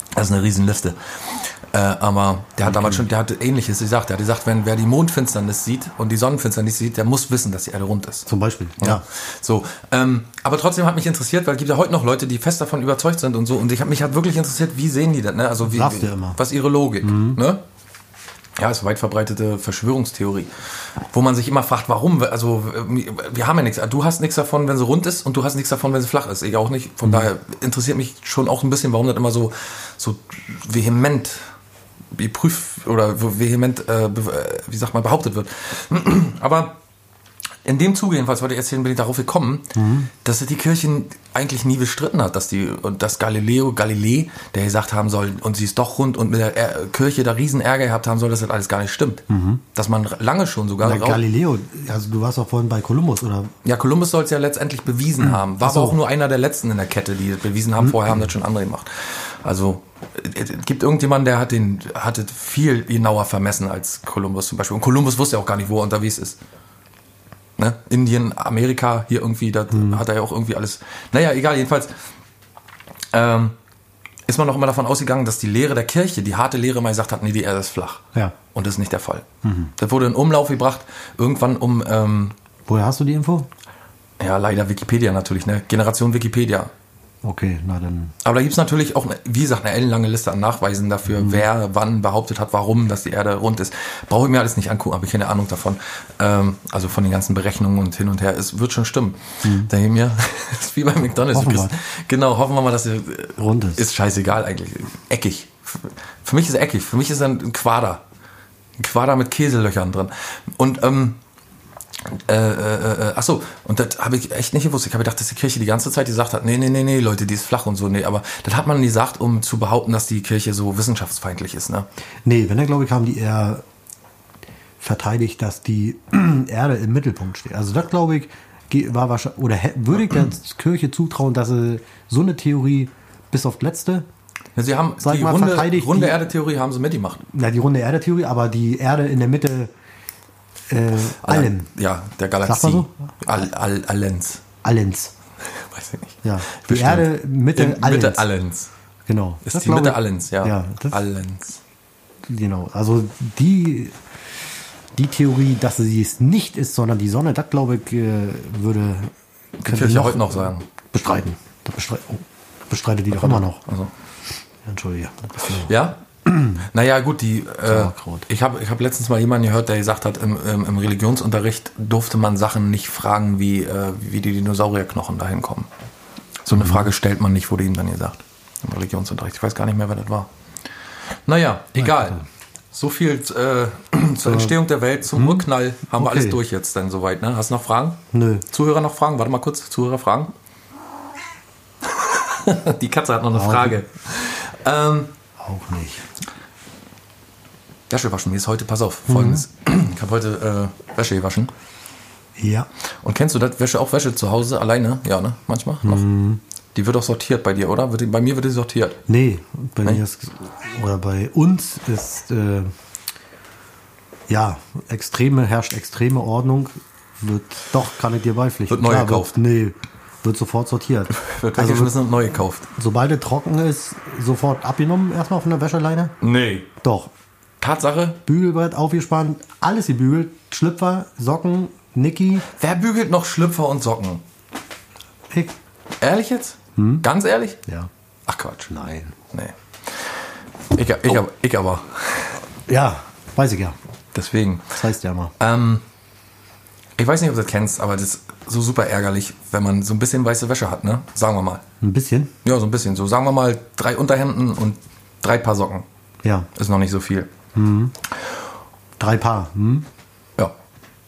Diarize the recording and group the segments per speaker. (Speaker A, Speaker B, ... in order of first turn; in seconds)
Speaker A: 0.1-8.3, 8.8-17.6, 18.6-20.5, 21.1-31.4, 32.1-36.8, 37.6-51.2, 53.6-66.4, 67.6-71.9, 73.1-73.5, 74.3-79.3, 79.8-82.3, 84.2-86.7, 88.2-108.0, 108.8-111.2, 112.1-121.9, 134.6-137.2, 141.2-144.4, 145.5-148.7, 149.4-151.6, 159.6-160.7, 163.2-163.9, 165.7-175.7, 176.4-180.3, 181.3-190.3, 191.8-195.1, 197.9-201.5, 203.0-206.1, 206.8-209.0, 218.7-219.4, 221.1-222.7, 226.2-226.7, 227.6-228.2, 232.5-234.2, 236.0-237.6, 238.3-238.7, 239.3-240.2, 240.7-242.4, 244.1-244.8, 245.4-245.8, 247.0-251.6, 252.4-255.9, 256.6-257.3
Speaker B: 2.7-3.0, 8.3-9.0, 15.6-16.4, 17.0-17.4, 39.8-40.1, 49.3-49.6, 50.8-53.5, 55.2-56.0, 57.9-58.1, 69.7-70.0, 79.4-79.7, 82.7-83.5, 87.2-88.2, 91.1-91.5, 99.4-99.7, 101.3-101.8, 103.4-103.8, 122.2-123.6, 124.8-134.1, 135.0-136.2, 137.3-139.7, 140.7-141.7, 142.4-142.9, 144.6-145.1, 146.2-148.3, 149.1-151.0, 152.3-154.0, 154.9-159.1, 159.6-163.6, 164.7-165.7, 166.3-166.6, 167.7-168.3, 176.5-176.9, 181.8-182.1, 184.2-184.6, 185.1-186.4, 188.1-188.4, 193.3-193.8, 195.4-196.0, 199.1-199.4, 202.4-202.7, 205.8-206.4, 209.1-212.7, 214.3-222.0, 222.8-226.2, 226.8-227.1, 228.3-232.5, 236.8-237.1, 238.7-239.2, 242.7-243.8, 244.8-245.3, 251.8-252.3, 256.2-256.5, 257.6-257.9, 259.0-259.9